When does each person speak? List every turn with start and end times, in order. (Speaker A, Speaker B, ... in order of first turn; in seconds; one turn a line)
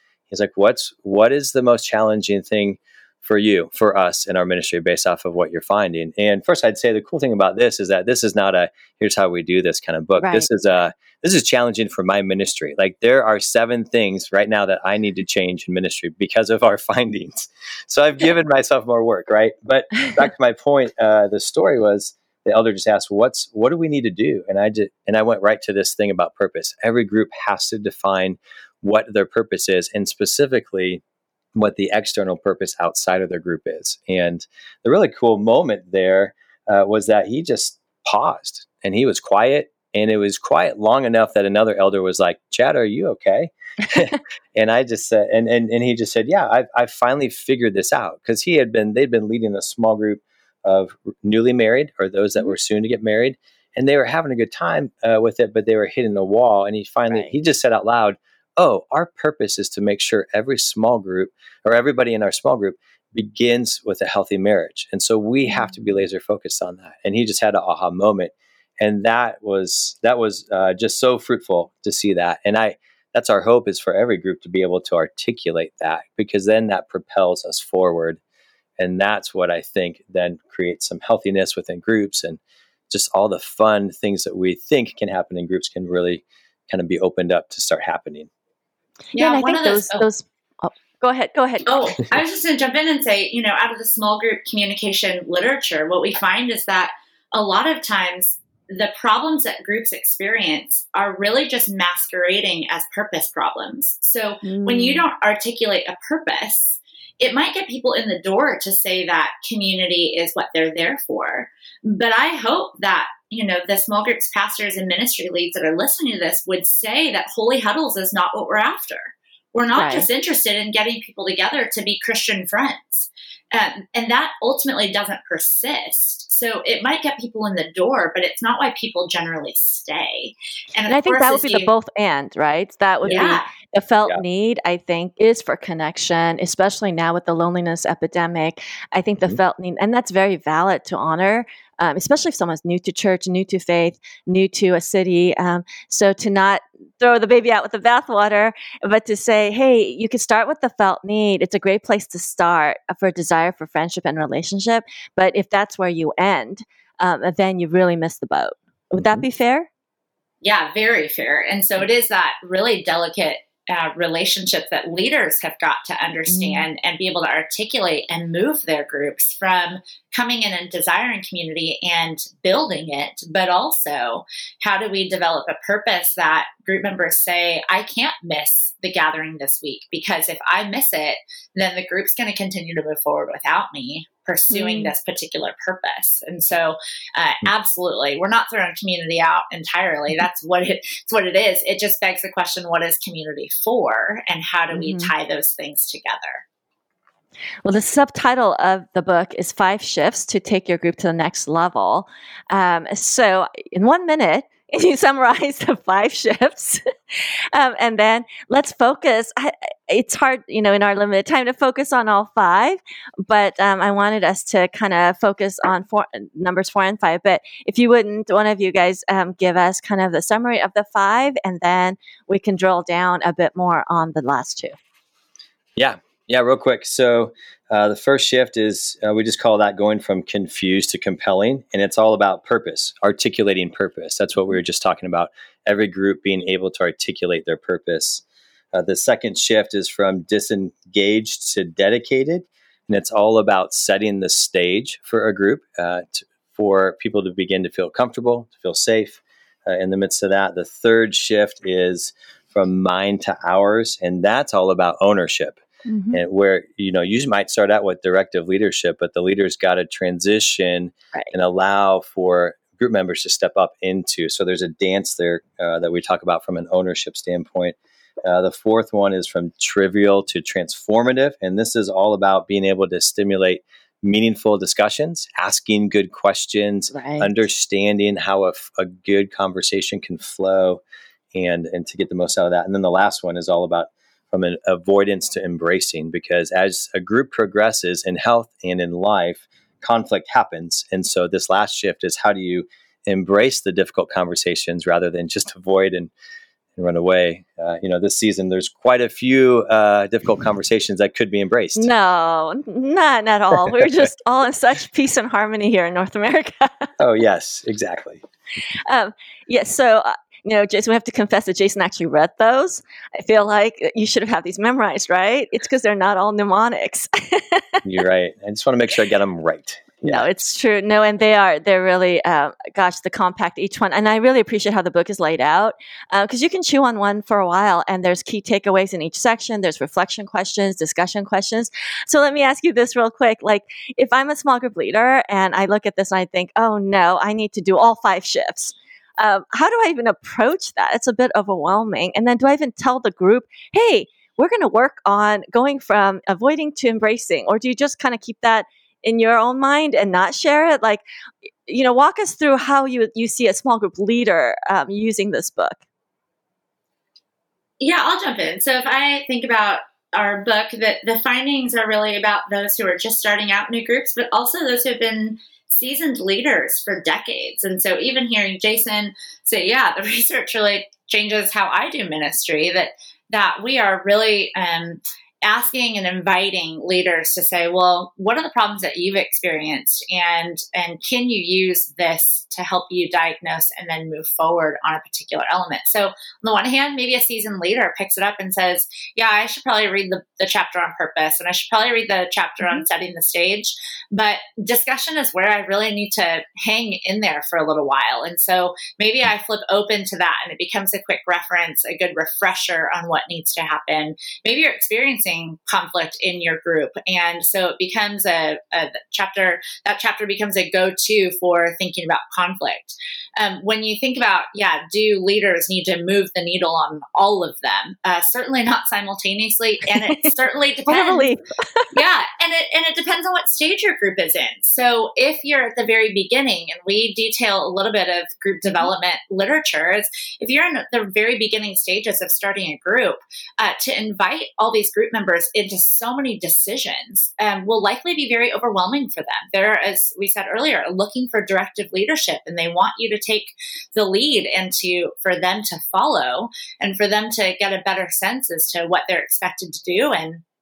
Speaker A: 0.3-31.0
Speaker B: 10.2-10.5
Speaker A: 31.6-78.2
Speaker A: 78.8-88.3
Speaker B: 89.1-92.0
Speaker C: 89.2-90.1
Speaker C: 91.7-131.7
Speaker B: 104.4-105.0
Speaker B: 119.8-120.1
Speaker B: 130.9-159.7
Speaker C: 133.1-133.4
Speaker C: 160.4-196.4
Speaker B: 166.3-166.7
Speaker B: 184.5-184.9
Speaker B: 194.7-195.1
Speaker B: 197.7-224.8
Speaker A: 225.8-255.6
Speaker B: 255.9-256.2
Speaker A: 256.1-280.8
Speaker B: 276.9-277.4
Speaker A: 281.3-296.1
Speaker A: 296.8-301.9
Speaker B: 301.8-306.9
Speaker A: 307.0-308.2
Speaker B: 308.9-317.8
Speaker A: 317.8-320.3
Speaker B: 320.1-351.0
Speaker B: 351.7-355.8
Speaker C: 357.8-421.3
Speaker B: 420.0-420.3
Speaker B: 420.9-421.9
Speaker C: 421.9-450.4